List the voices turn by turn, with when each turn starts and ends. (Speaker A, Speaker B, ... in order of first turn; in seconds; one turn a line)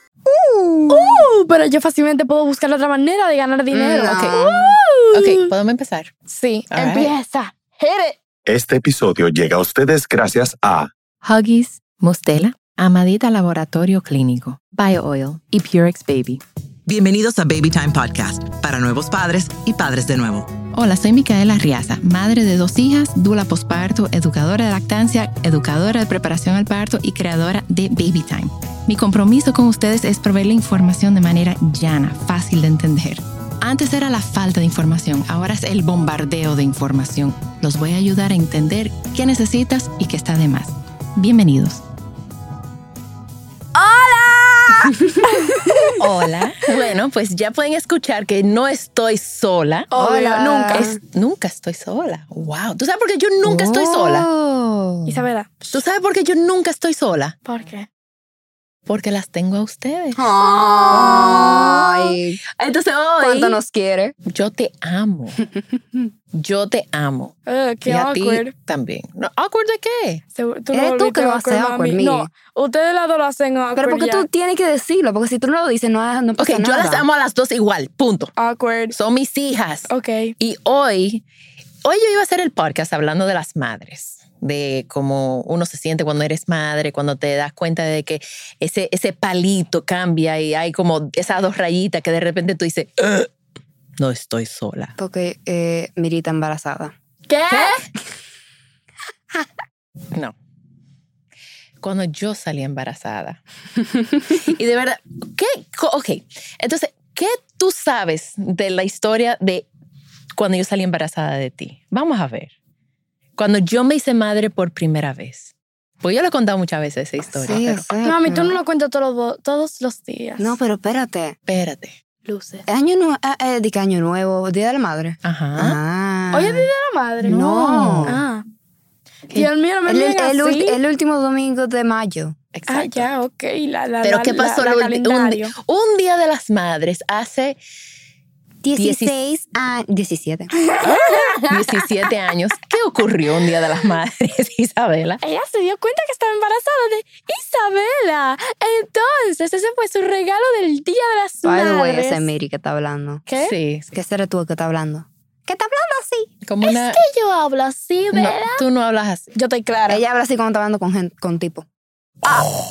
Speaker A: 0.3-1.2
Speaker B: 0.9-5.5
Speaker A: 3.7-4.7
Speaker C: 4.1-6.1
Speaker B: 6.3-8.2
Speaker C: 6.7-7.1
Speaker D: 8.5-10.9
Speaker C: 11.2-16.4
Speaker E: 16.9-20.6
Speaker C: 20.7-41.8
Speaker B: 43.8-45.9
Speaker A: 45.0-45.9
Speaker C: 46.0-49.9
Speaker B: 49.9-50.9
Speaker A: 50.0-51.0
Speaker C: 50.7-54.3
Speaker A: 53.4-55.2
Speaker B: 55.1-55.8
Speaker C: 55.7-57.4
Speaker B: 57.5-57.9
Speaker C: 58.9-63.6
Speaker A: 60.1-62.4
Speaker B: 60.5-61.4
Speaker A: 63.2-64.2
Speaker C: 64.2-65.4
Speaker C: 66.3-67.3
Speaker B: 67.5-68.5
Speaker C: 67.9-70.2
Speaker B: 70.3-74.3
Speaker A: 70.7-72.3
Speaker A: 73.8-77.0
Speaker C: 76.4-78.3
Speaker B: 78.4-79.0
Speaker C: 78.9-81.2
Speaker B: 79.9-80.3
Speaker C: 81.8-93.3
Speaker C: 94.0-94.9
Speaker A: 95.0-96.9
Speaker B: 97.3-97.8
Speaker C: 97.5-97.8
Speaker C: 101.8-103.4
Speaker C: 104.3-109.7
Speaker C: 110.4-112.5
Speaker C: 113.4-117.8
Speaker A: 117.4-118.6
Speaker B: 118.0-120.5
Speaker A: 120.4-121.4
Speaker C: 121.5-122.0
Speaker B: 122.2-122.7
Speaker A: 122.7-126.7
Speaker C: 125.2-125.8
Speaker B: 126.3-127.4
Speaker C: 127.2-128.2
Speaker A: 127.2-128.2
Speaker B: 128.1-128.4
Speaker B: 129.3-130.8
Speaker A: 129.9-132.4
Speaker C: 132.5-133.1
Speaker B: 132.7-135.6
Speaker C: 134.0-137.6
Speaker A: 138.6-140.7
Speaker C: 138.8-139.2
Speaker B: 140.6-141.6
Speaker C: 141.5-145.2
Speaker B: 145.2-152.3
Speaker A: 151.4-153.2
Speaker B: 153.3-153.6
Speaker C: 153.4-153.9
Speaker A: 153.9-156.3
Speaker C: 156.4-157.0
Speaker B: 156.6-158.7
Speaker C: 158.1-159.3
Speaker B: 159.3-160.0
Speaker A: 159.9-161.7
Speaker B: 162.2-162.5